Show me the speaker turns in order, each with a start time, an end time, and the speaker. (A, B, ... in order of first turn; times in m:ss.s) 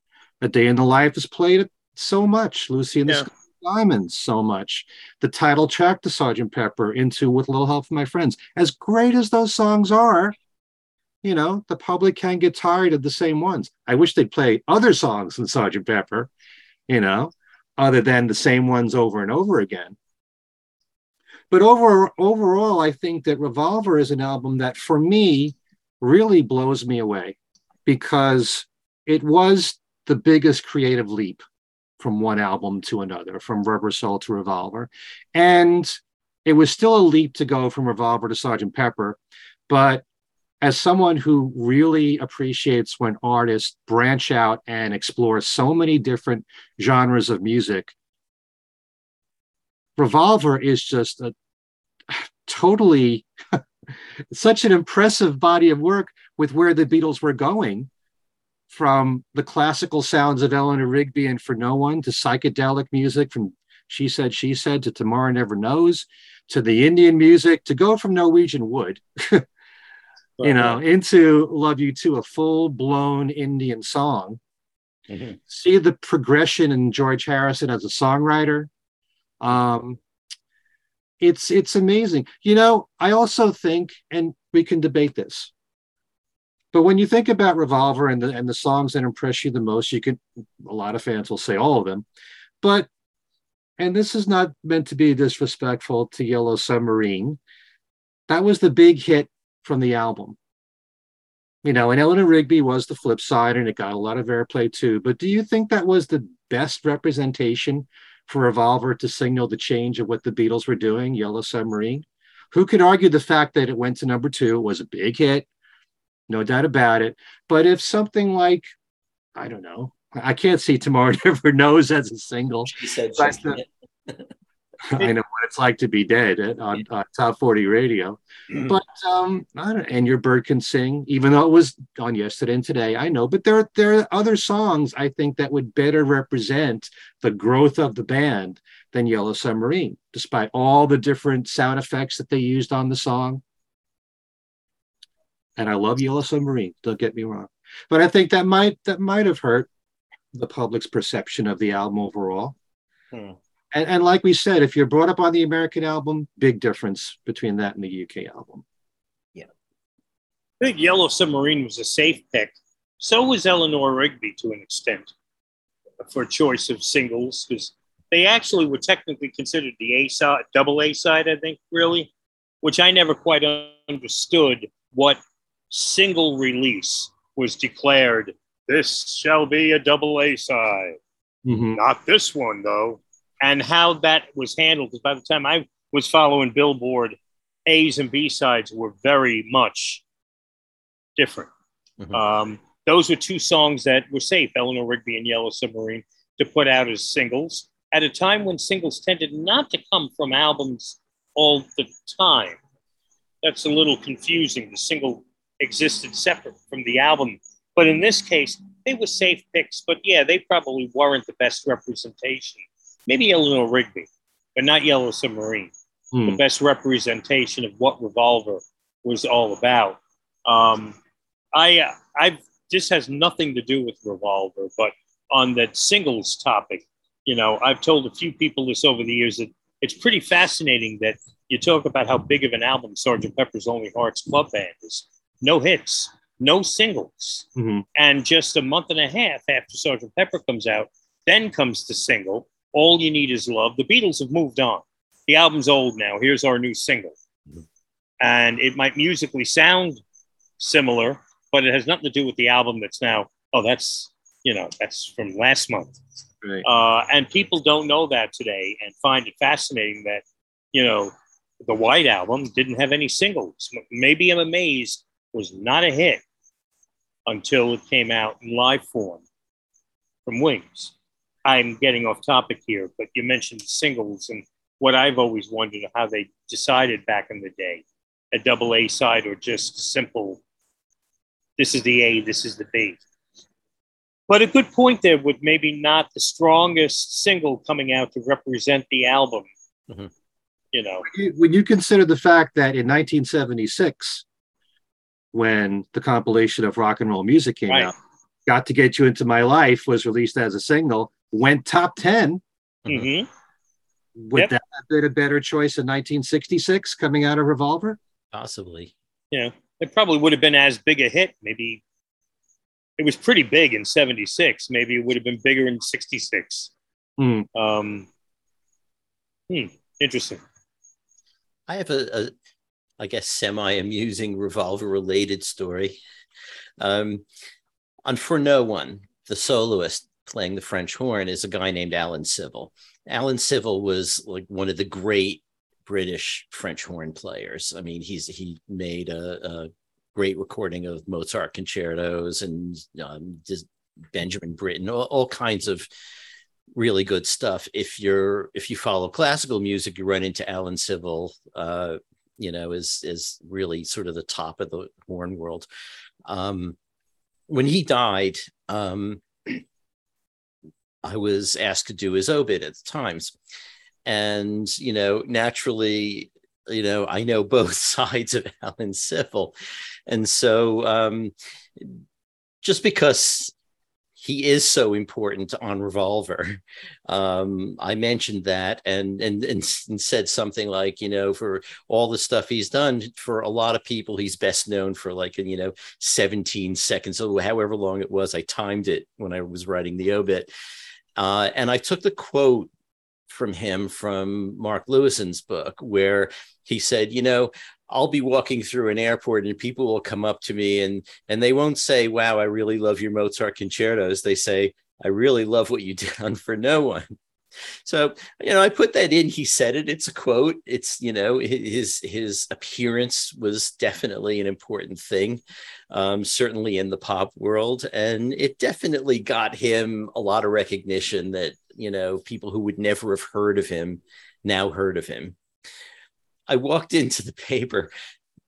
0:00.4-0:10.4 A
0:11.2-0:16.3 A
0:16.9-0:20.0 A
0:21.5-0:31.4 A
0:32.0-0:40.0 A
0:40.6-0:47.9 A
0:50.0-0:51.4 A
0:52.1-0:53.3 A
0:54.3-0:57.9 A
0:58.7-1:09.5 A
1:10.4-1:10.8 B
1:10.4-1:14.4 A
1:15.1-1:15.4 C
1:15.5-1:18.7 A
1:19.4-1:20.0 A
1:21.2-1:25.5 A
1:26.7-1:32.0 A
1:32.6-1:32.9 A
1:33.8-1:37.4 A
1:38.3-1:40.4 A
1:41.6-1:55.5 A
1:56.3-1:58.7 A
1:59.4-2:03.6 A
2:02.7-2:04.3 C
2:04.9-2:23.4 A
2:25.6-2:29.7 A
2:30.3-2:32.6 A
2:33.1-2:33.4 C
2:33.7-2:38.6 A
2:40.6-2:45.1 B
2:46.0-2:52.1 B
2:52.6-3:01.0 B
3:01.4-3:01.8 A
3:01.8-3:10.0 B
3:11.2-3:11.5 B
3:12.1-3:22.6 B
3:23.4-3:35.7 B
3:36.1-3:36.4 A
3:36.3-3:41.0 B
3:41.5-4:07.2 B
3:57.6-3:57.8 A
4:08.2-4:10.0 B
4:10.6-4:16.0 B
4:16.6-4:26.2 B
4:27.3-4:29.2 B
4:30.3-4:30.9 B
4:31.4-4:40.4 B
4:41.6-4:43.0 B
4:44.3-4:49.5 B
4:50.7-4:51.1 B
4:51.1-4:54.2 A
4:55.3-4:57.9 A
4:58.5-5:02.4 A
5:02.8-5:03.1 C
5:02.9-5:03.3 B
5:04.2-5:08.0 A
5:08.3-5:08.9 C
5:09.3-5:11.8 B
5:13.0-5:16.7 B
5:17.2-5:17.5 A
5:17.6-5:18.1 B
5:19.5-5:20.4 B
5:21.7-5:22.3 C
5:23.0-5:26.0 C
5:26.8-5:27.2 C
5:28.1-5:45.9 C
5:46.8-5:55.7 C
5:56.3-5:56.8 C
5:57.5-5:59.6 C
6:01.0-6:03.3 C
6:04.0-6:09.5 C
6:10.1-6:12.0 C
6:12.6-6:13.5 C
6:14.2-6:30.5 C
6:31.2-6:32.7 C
6:33.3-6:47.2 C
6:47.8-7:05.4 C
7:06.5-7:07.9 C